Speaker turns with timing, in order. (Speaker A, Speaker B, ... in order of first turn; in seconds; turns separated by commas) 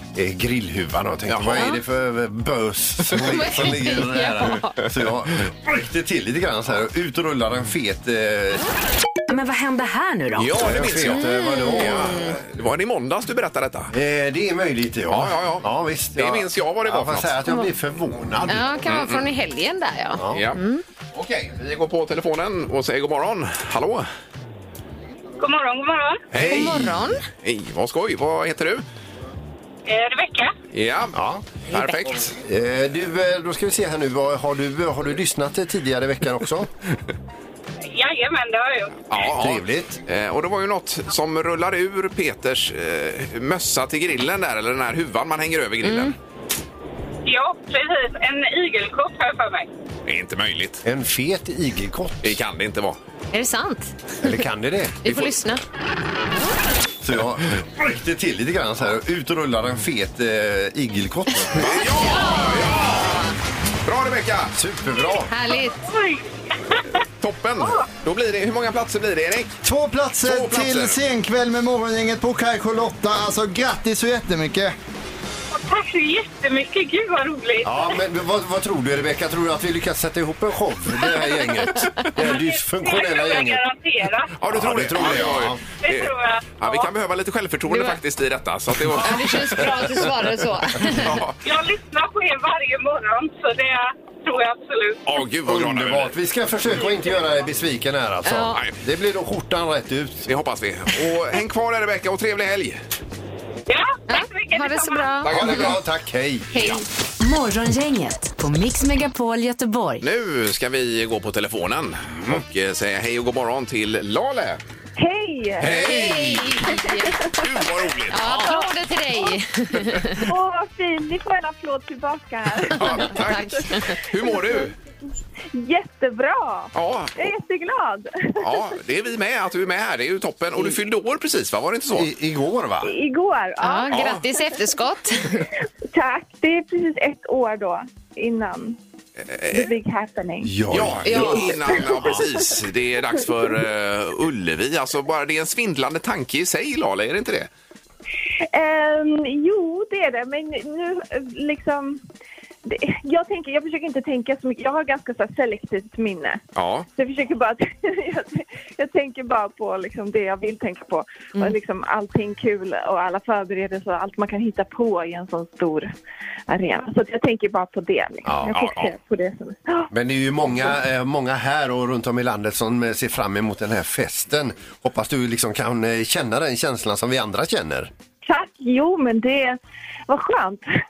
Speaker A: 0.1-8.7, Speaker B: 1.3-1.7, Speaker C: 3.1-4.8, Speaker D: 9.3-10.6, Speaker B: 10.4-13.9, Speaker A: 10.5-12.5, Speaker C: 11.1-12.3, Speaker A: 13.9-18.7, Speaker B: 15.1-17.4, Speaker C: 18.5-20.8, Speaker B: 18.8-19.2, Speaker A: 20.2-20.4, Speaker B: 20.3-20.6, Speaker B: 21.1-24.1, Speaker E: 25.4-26.2, Speaker B: 26.3-28.8, Speaker C: 26.4-27.2, Speaker A: 26.4-26.9, Speaker E: 29.9-30.5, Speaker B: 30.7-31.2, Speaker A: 31.1-31.4, Speaker B: 31.7-32.4, Speaker C: 31.7-32.1, Speaker A: 32.4-36.7, Speaker E: 37.9-39.0, Speaker B: 39.1-46.1, Speaker A: 39.3-40.0, Speaker C: 45.8-46.1, Speaker E: 47.3-49.7, Speaker B: 50.1-50.8, Speaker A: 50.8-52.4, Speaker B: 52.2-53.0, Speaker C: 53.3-54.0, Speaker A: 54.2-55.0, Speaker C: 55.0-55.6, Speaker A: 57.0-61.8, Speaker B: 61.6-63.3, Speaker C: 62.0-63.2, Speaker B: 63.9-64.5, Speaker A: 64.5-65.3, Speaker C: 65.3-65.8, Speaker E: 65.7-66.8, Speaker B: 67.2-69.6, Speaker E: 67.6-67.8, Speaker F: 69.6-74.8, Speaker B: 70.2-71.0, Speaker E: 75.5-78.0, Speaker A: 77.6-83.6, Speaker E: 82.2-84.3, Speaker B: 84.4-90.1, Speaker A: 84.5-85.6, Speaker E: 85.8-86.9, Speaker C: 87.7-88.0, Speaker C: 88.9-91.2, Speaker B: 90.8-91.4, Speaker E: 91.4-95.1, Speaker B: 95.0-96.2, Speaker A: 95.5-100.3, Speaker C: 98.2-98.6, Speaker B: 100.3-102.8, Speaker E: 103.7-105.3, Speaker C: 104.1-105.8, Speaker B: 105.2-105.8, Speaker A: 105.3-106.5, Speaker C: 106.5-106.8, Speaker D: 107.2-110.0, Speaker B: 110.0-114.6, Speaker A: 112.1-112.4, Speaker G: 115.0-116.1, Speaker B: 115.6-116.6, Speaker C: 115.7-117.2, Speaker A: 115.7-116.2, Speaker G: 116.6-117.6, Speaker B: 117.3-118.6, Speaker C: 118.1-120.3, Speaker G: 120.2-124.7, Speaker B: 122.6-124.7, Speaker C: 122.8-124.0, Speaker G: 125.5-128.7, Speaker B: 126.7-127.3, Speaker B: 128.4-132.1, Speaker A: 131.9-132.9, Speaker G: 132.8-134.0, Speaker C: 133.6-135.5, Speaker B: 133.9-134.2, Speaker G: 135.9-138.8, Speaker B: 139.3-139.7, Speaker G: 139.5-140.6, Speaker A: 140.4-142.2, Speaker B: 140.7-147.5, Speaker C: 141.1-141.5, Speaker G: 141.1-142.4, Speaker G: 148.5-152.0, Speaker G: 152.6-156.4, Speaker B: 156.6-156.9, Speaker G: 157.0-165.9, Speaker G: 166.5-169.9, Speaker A: 168.2-168.6, Speaker B: 168.5-168.9, Speaker A: 169.9-177.9, Speaker G: 178.2-180.7